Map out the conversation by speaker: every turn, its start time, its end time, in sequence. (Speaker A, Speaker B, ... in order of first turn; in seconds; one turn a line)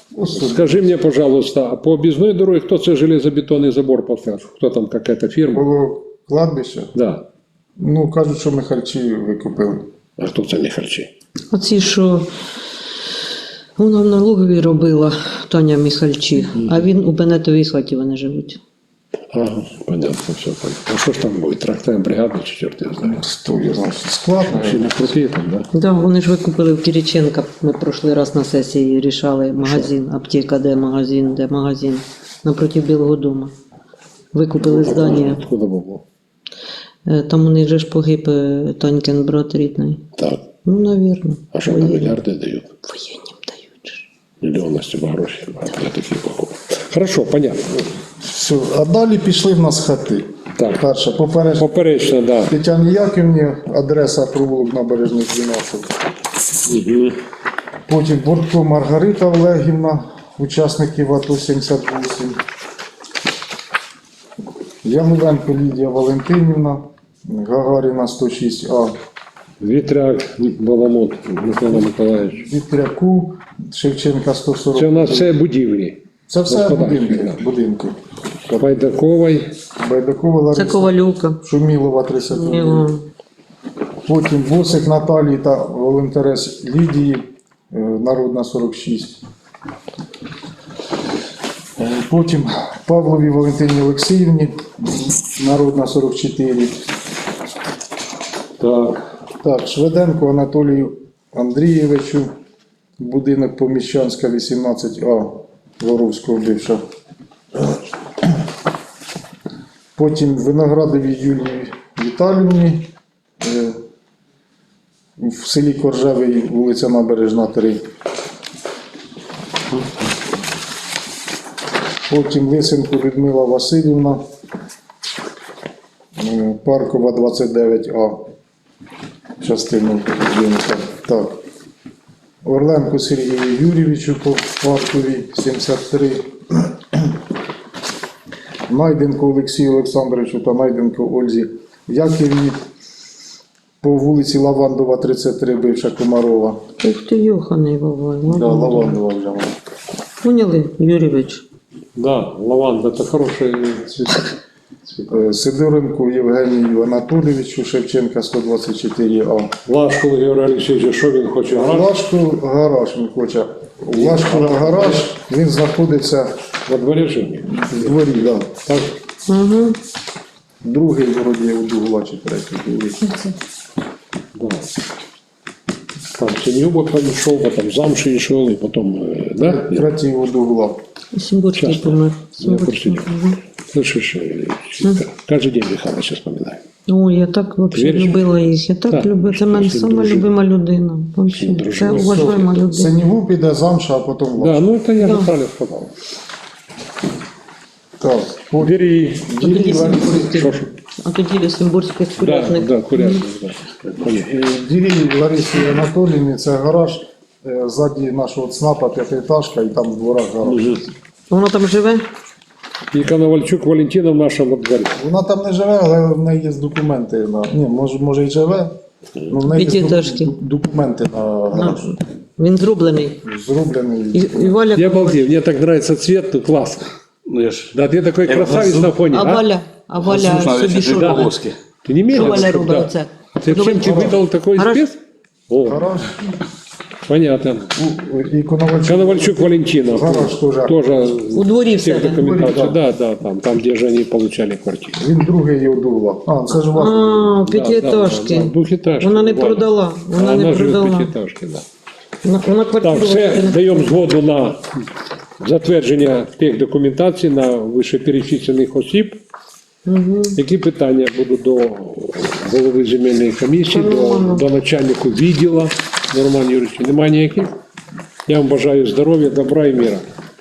Speaker A: 0.1-0.8
Speaker B: 0.3-5.6
Speaker A: 5.5-6.9
Speaker B: 6.9-7.2
Speaker A: 7.8-9.9
Speaker B: 10.2-11.1
Speaker C: 11.5-12.3
Speaker C: 13.8-18.6
Speaker B: 19.3-23.2
Speaker A: 23.0-24.9
Speaker B: 24.4-25.7
Speaker C: 25.7-33.5
Speaker B: 29.6-29.9
Speaker C: 34.3-35.4
Speaker B: 34.6-36.0
Speaker C: 37.0-40.0
Speaker B: 40.2-40.4
Speaker C: 40.6-42.1
Speaker B: 41.5-42.7
Speaker C: 42.8-44.0
Speaker B: 44.4-47.9
Speaker A: 48.2-55.9
Speaker B: 50.6-50.8
Speaker B: 51.6-52.5
Speaker B: 56.7-57.1
Speaker A: 57.9-62.4
Speaker A: 64.8-68.9
Speaker B: 69.6-72.4
Speaker A: 72.3-75.3
Speaker B: 74.7-77.4
Speaker A: 76.3-77.9
Speaker B: 78.5-79.5
Speaker A: 79.8-82.9
Speaker C: 80.5-81.4
Speaker C: 82.3-83.0
Speaker A: 84.0-89.2
Speaker A: 91.8-96.7
Speaker B: 98.6-99.0
Speaker A: 99.4-102.3
Speaker A: 103.0-106.8
Speaker A: 110.0-112.9
Speaker A: 113.4-113.8
Speaker A: 115.2-117.8
Speaker A: 122.1-124.2
Speaker A: 126.2-128.3
Speaker A: 129.4-131.4
Speaker A: 132.4-136.7
Speaker A: 138.7-142.6
Speaker A: 143.8-146.6
Speaker C: 146.8-148.9
Speaker A: 148.3-149.5
Speaker C: 150.2-151.4
Speaker B: 151.9-154.3
Speaker A: 155.1-159.5
Speaker B: 159.7-161.9
Speaker A: 161.5-166.3
Speaker B: 163.9-165.1
Speaker B: 166.7-167.9
Speaker A: 167.5-168.5
Speaker B: 168.6-168.9
Speaker C: 169.3-169.8
Speaker A: 170.6-173.1
Speaker B: 174.3-174.7
Speaker B: 176.2-179.9
Speaker A: 179.4-180.8
Speaker C: 181.1-183.4
Speaker B: 181.5-183.1
Speaker B: 183.7-186.6
Speaker C: 186.9-192.9
Speaker B: 187.7-188.2
Speaker B: 188.9-190.3
Speaker B: 191.3-192.5
Speaker A: 191.9-194.7
Speaker B: 194.4-195.9
Speaker C: 195.0-195.3
Speaker A: 198.0-200.3
Speaker B: 198.6-200.7
Speaker C: 199.4-203.2
Speaker B: 202.2-204.3
Speaker A: 204.1-210.8
Speaker B: 210.4-210.8
Speaker C: 211.3-212.1
Speaker B: 212.9-215.0
Speaker A: 214.9-218.7
Speaker A: 219.3-221.9
Speaker C: 219.5-220.3
Speaker C: 221.5-223.2
Speaker A: 223.2-224.6
Speaker C: 224.1-225.2
Speaker B: 224.7-226.9
Speaker D: 227.2-229.0
Speaker B: 227.7-229.4
Speaker C: 229.1-231.3
Speaker D: 230.0-231.6
Speaker B: 230.9-231.3
Speaker B: 231.8-235.0
Speaker C: 232.1-234.8
Speaker D: 232.2-232.5
Speaker A: 233.8-234.2
Speaker B: 235.5-235.9
Speaker A: 235.6-236.1
Speaker B: 237.0-237.7
Speaker A: 237.8-240.8
Speaker B: 238.8-245.0
Speaker C: 241.3-242.2
Speaker A: 242.1-242.8
Speaker A: 245.0-247.3
Speaker C: 246.7-251.1
Speaker B: 247.4-251.6
Speaker C: 252.2-253.9
Speaker B: 252.8-254.6
Speaker B: 255.4-259.2
Speaker C: 259.9-260.4
Speaker B: 260.4-267.5
Speaker C: 263.7-264.4
Speaker B: 268.3-270.0